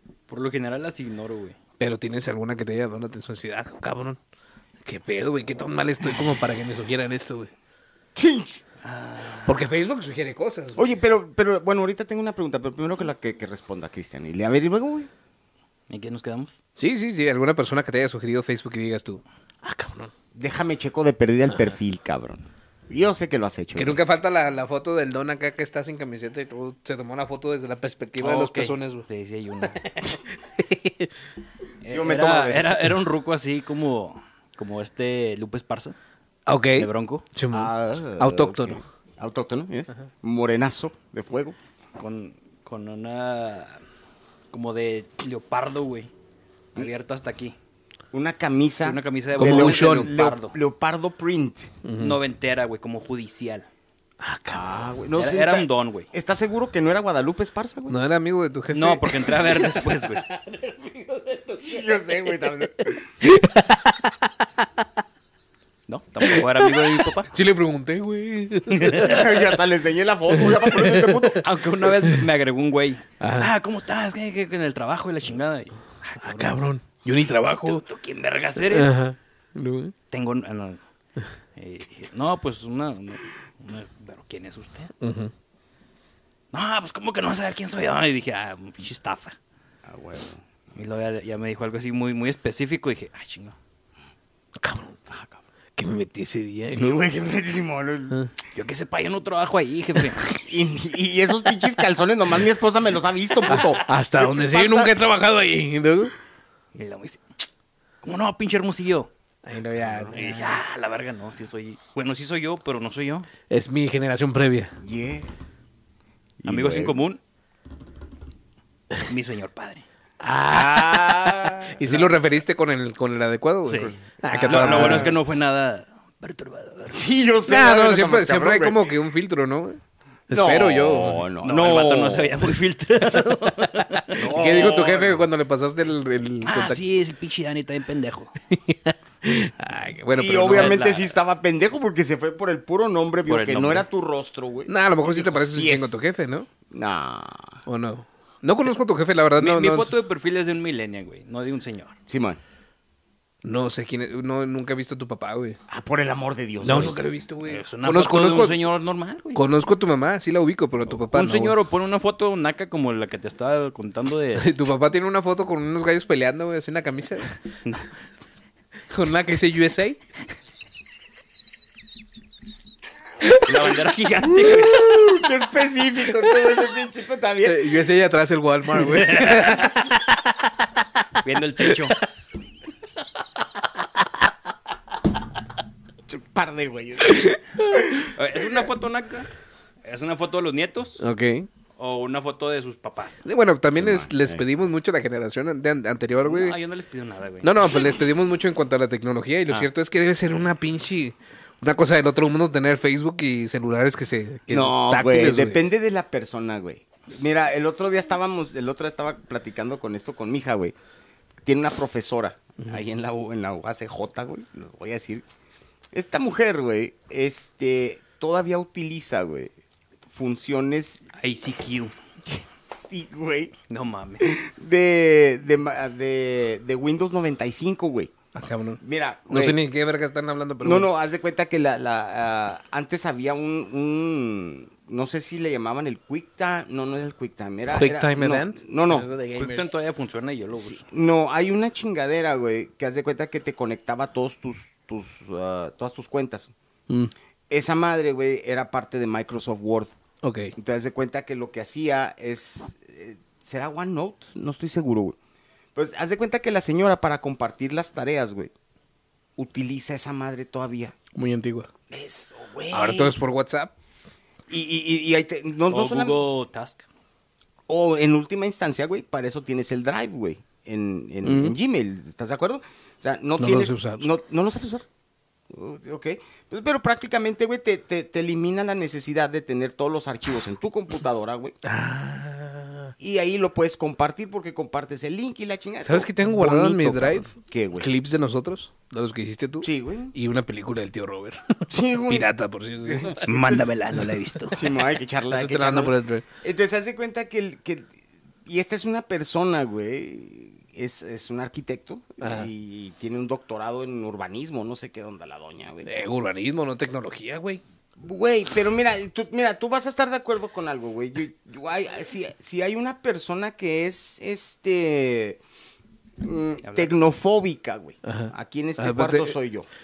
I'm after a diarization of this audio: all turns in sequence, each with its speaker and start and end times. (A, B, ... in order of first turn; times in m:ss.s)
0:00.3-0:01.6 A
0:01.8-0:04.2 B
0:04.8-0:07.5 B
0:08.1-0:08.6 C
0:08.8-0:09.6 A
0:09.4-0:10.9 B
0:10.8-0:15.1 C
0:15.9-0:16.5 A
0:16.8-0:20.1 B
0:20.3-0:24.0 C
0:23.8-0:29.0 B
0:28.2-0:29.9 A
0:29.8-0:31.1 B
0:31.8-0:36.0 A
0:31.9-0:32.9 C
0:36.5-0:38.8 B
0:36.8-0:37.2 A
0:37.5-0:41.6 C
0:42.0-0:43.8 A
0:44.5-0:46.1 A
0:46.7-0:47.6 A
0:48.1-0:51.7 C
0:48.8-0:50.6 A
0:49.4-0:50.1 B
0:51.8-0:52.2 B
0:52.0-0:53.7 A
0:54.2-0:54.8 B
0:54.5-0:57.9 C
0:55.2-0:56.1 A
0:57.9-1:01.9 B
0:58.7-1:00.2 A
1:01.6-1:03.1 C
1:03.2-1:04.3 B
1:05.9-1:07.3 A
1:06.3-1:09.3 B
1:08.7-1:09.1 A
1:09.0-1:11.6 C
1:10.3-1:11.4 B
1:11.4-1:16.6 A
1:13.2-1:13.5 B
1:16.2-1:17.8 B
1:17.5-1:19.0 A
1:18.6-1:19.9 B
1:20.1-1:20.8 A
1:21.6-1:24.9 A
1:25.0-1:25.3 B
1:26.5-1:29.4 A
1:29.8-1:30.4 C
1:30.7-1:33.6 A
1:34.6-1:35.0 B
1:35.1-1:35.4 C
1:35.8-1:37.0 B
1:36.7-1:38.2 C
1:38.5-1:40.2 A
1:40.4-1:44.9 C
1:43.5-1:46.1 B
1:46.7-1:47.2 A
1:48.0-1:49.1 A
1:49.4-1:50.4 B
1:49.8-1:50.6 C
1:50.1-1:53.3 A
1:53.5-1:54.8 B
1:54.8-1:55.4 C
1:56.4-1:57.0 C
1:56.4-1:57.2 A
1:59.1-1:59.8 A
2:00.2-2:05.1 B
2:00.5-2:02.0 C
2:03.6-2:07.0 A
2:04.3-2:05.2 C
2:06.9-2:08.9 C
2:07.5-2:11.2 B
2:10.3-2:12.4 C
2:11.4-2:14.3 A
2:14.1-2:15.3 C
2:14.3-2:16.8 B
2:16.4-2:18.3 A
2:18.5-2:20.8 B
2:20.2-2:26.0 C
2:20.5-2:21.1 A
2:23.2-2:23.9 A
2:24.7-2:26.5 B
2:26.7-2:27.6 C
2:27.6-2:30.0 B
2:29.4-2:32.0 A
2:32.1-2:32.4 C
2:33.4-2:35.6 B
2:35.7-2:37.0 C
2:36.6-2:38.6 B
2:36.6-2:39.4 A
2:39.3-2:41.5 B
2:41.0-2:44.5 A
2:44.4-2:47.3 B
2:48.9-2:50.0 B
2:53.2-2:53.5 B
2:53.4-2:54.9 A
2:54.4-2:57.7 C
2:57.4-3:00.0 B
2:58.8-2:59.8 A
3:01.2-3:02.0 A
3:06.1-3:08.1 C
3:07.1-3:07.8 B
3:08.1-3:09.3 A
3:09.8-3:11.0 A
3:11.0-3:11.5 B
3:11.8-3:13.2 A
3:13.2-3:16.6 B
3:13.7-3:14.4 C
3:16.2-3:17.8 A
3:17.4-3:25.6 B
3:24.5-3:30.7 C
3:31.4-3:35.2 C
3:35.9-3:39.5 C
3:40.1-3:41.0 C
3:41.1-3:41.9 A
3:42.2-3:43.5 C
3:43.7-3:44.3 A
3:44.2-3:48.1 C
3:48.3-3:50.9 B
3:48.8-3:49.6 C
3:50.6-3:59.1 C
3:57.7-3:59.7 B
3:59.3-4:00.8 A
4:00.5-4:06.5 C
4:07.5-4:09.9 C
4:10.2-4:10.5 B
4:10.6-4:15.2 C
4:15.7-4:18.5 C
4:19.4-4:20.9 C
4:21.1-4:21.7 B
4:21.9-4:23.2 C
4:22.7-4:23.7 B
4:24.5-4:26.2 C
4:25.7-4:26.8 A
4:27.7-4:34.8 C
4:31.2-4:31.6 B
4:33.4-4:34.1 B
4:35.5-4:41.6 C
4:41.6-4:42.9 B
4:43.0-4:47.9 C
4:45.8-4:53.5 B
4:49.6-4:50.1 C
4:51.7-4:52.3 C
4:52.8-4:53.7 C
4:53.2-4:54.6 A
4:54.5-4:57.9 C
4:55.3-4:56.2 B
4:58.4-5:05.9 C
5:02.2-5:02.5 B
5:05.8-5:07.6 B
5:08.0-5:15.4 C
5:16.2-5:19.7 C
5:16.6-5:16.9 A
5:18.0-5:19.4 B